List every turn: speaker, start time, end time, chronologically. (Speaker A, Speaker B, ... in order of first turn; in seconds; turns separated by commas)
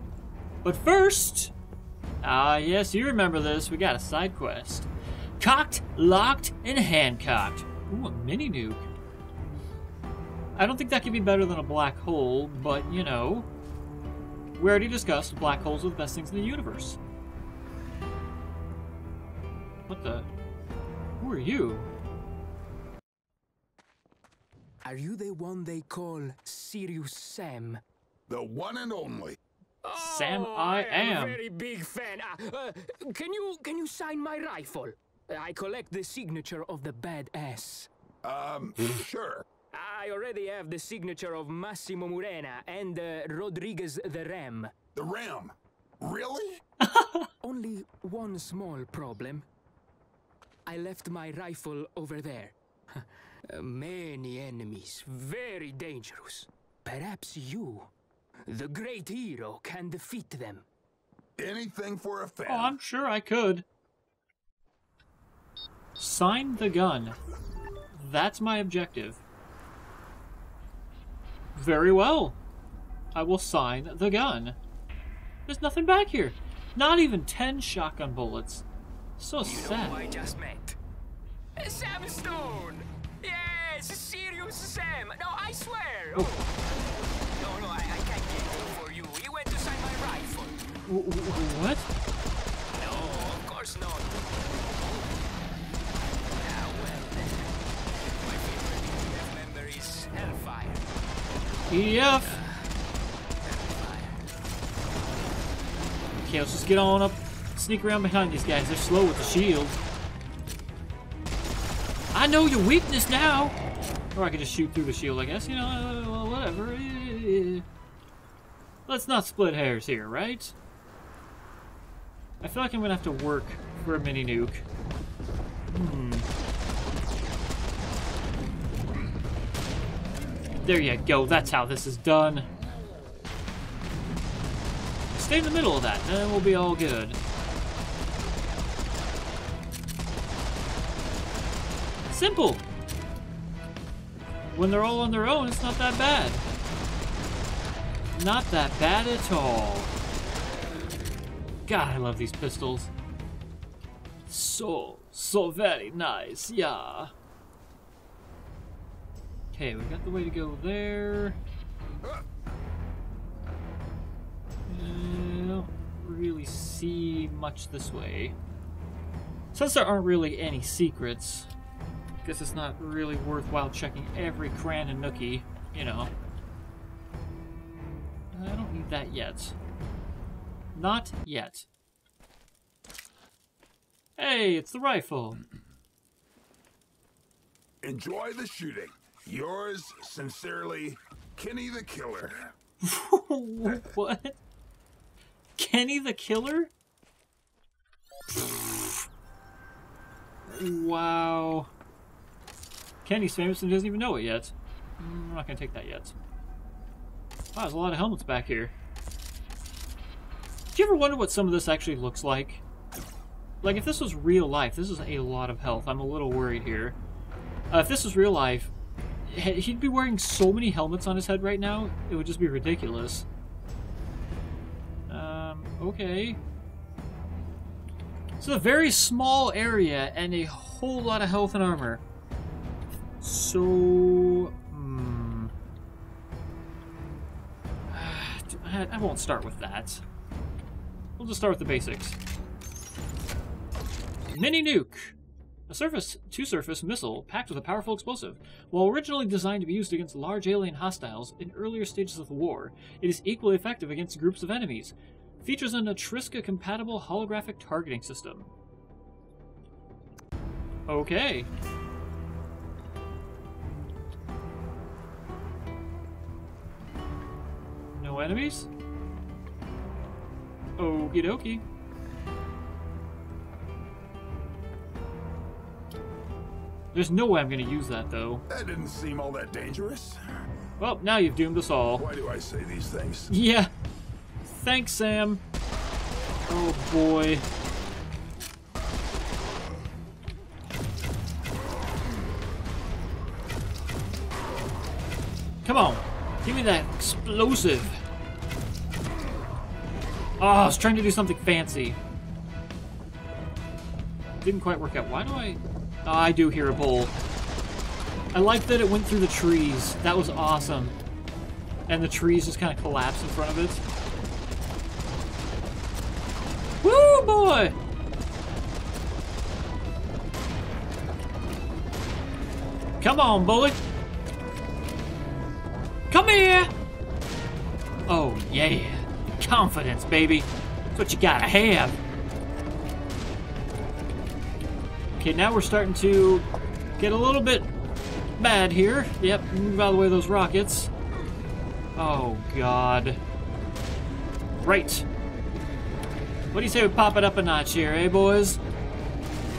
Speaker A: 0.6-1.5, Speaker A: 2.2-4.9, Speaker A: 5.4-8.9, Speaker A: 10.6-13.5, Speaker A: 14.6-17.0, Speaker A: 19.9-20.3, Speaker A: 21.2-21.9, Speaker B: 24.9-27.8, Speaker C: 28.3-29.4, Speaker B: 29.8-37.9, Speaker A: 30.0-31.4, Speaker C: 38.2-39.5, Speaker B: 39.7-44.7, Speaker C: 45.0-46.6, Speaker A: 46.8-47.3, Speaker B: 47.4-49.5, Speaker B: 50.7-57.9, Speaker B: 58.5-60.6, Speaker C: 61.4-62.8, Speaker A: 62.5-63.6, Speaker A: 66.0-67.2, Speaker A: 67.9-69.2, Speaker A: 71.5-72.4, Speaker A: 73.1-74.6, Speaker A: 75.5-78.7, Speaker A: 79.2-80.0, Speaker B: 79.4-80.8, Speaker B: 81.6-86.5, Speaker B: 87.4-90.6, Speaker A: 90.9-91.9, Speaker B: 92.7-94.1, Speaker B: 96.4-97.5, Speaker B: 98.0-100.9, Speaker A: 101.7-102.3, Speaker B: 102.2-102.7, Speaker B: 103.4-104.2, Speaker A: 106.2-109.8, Speaker A: 112.1-113.6, Speaker A: 114.2-117.6, Speaker A: 118.9-120.5, Speaker A: 122.4-124.6, Speaker A: 125.7-126.3, Speaker A: 130.6-132.5, Speaker A: 135.1-137.2, Speaker A: 142.1-142.6, Speaker A: 144.5-146.4, Speaker A: 148.2-149.9, Speaker A: 151.7-152.9, Speaker A: 154.3-157.1, Speaker A: 159.5-161.4, Speaker A: 164.7-168.3, Speaker A: 169.5-171.5, Speaker A: 172.2-176.1, Speaker A: 178.3-179.6, Speaker A: 180.8-181.7, Speaker A: 184.2-185.4, Speaker C: 187.8-192.5, Speaker A: 192.8-194.4, Speaker A: 195.6-196.7, Speaker A: 198.4-199.0, Speaker A: 200.5-201.7, Speaker A: 203.1-206.1, Speaker A: 207.5-208.7, Speaker A: 210.7-212.6, Speaker A: 213.6-217.0, Speaker A: 217.7-218.7, Speaker A: 219.3-223.2, Speaker A: 225.1-226.4, Speaker A: 228.4-232.0, Speaker A: 233.2-235.5, Speaker A: 237.9-240.0, Speaker A: 241.2-242.2, Speaker A: 244.3-245.1, Speaker A: 245.7-258.5, Speaker A: 260.9-261.5, Speaker A: 267.9-268.7, Speaker A: 270.8-271.6, Speaker A: 276.9-278.4, Speaker C: 278.5-280.2, Speaker A: 280.8-282.1, Speaker C: 282.0-283.3, Speaker A: 283.3-283.7, Speaker A: 284.4-285.4, Speaker A: 286.5-287.4, Speaker A: 295.6-298.0, Speaker A: 300.4-302.0, Speaker A: 304.4-307.1, Speaker A: 308.3-311.0, Speaker A: 311.9-313.8, Speaker A: 316.8-317.8, Speaker A: 323.0-323.8, Speaker A: 326.1-326.7, Speaker A: 328.1-332.0, Speaker A: 335.2-336.5, Speaker A: 337.0-337.7, Speaker A: 338.4-340.9, Speaker A: 342.0-343.2, Speaker A: 344.6-345.1, Speaker A: 346.5-348.6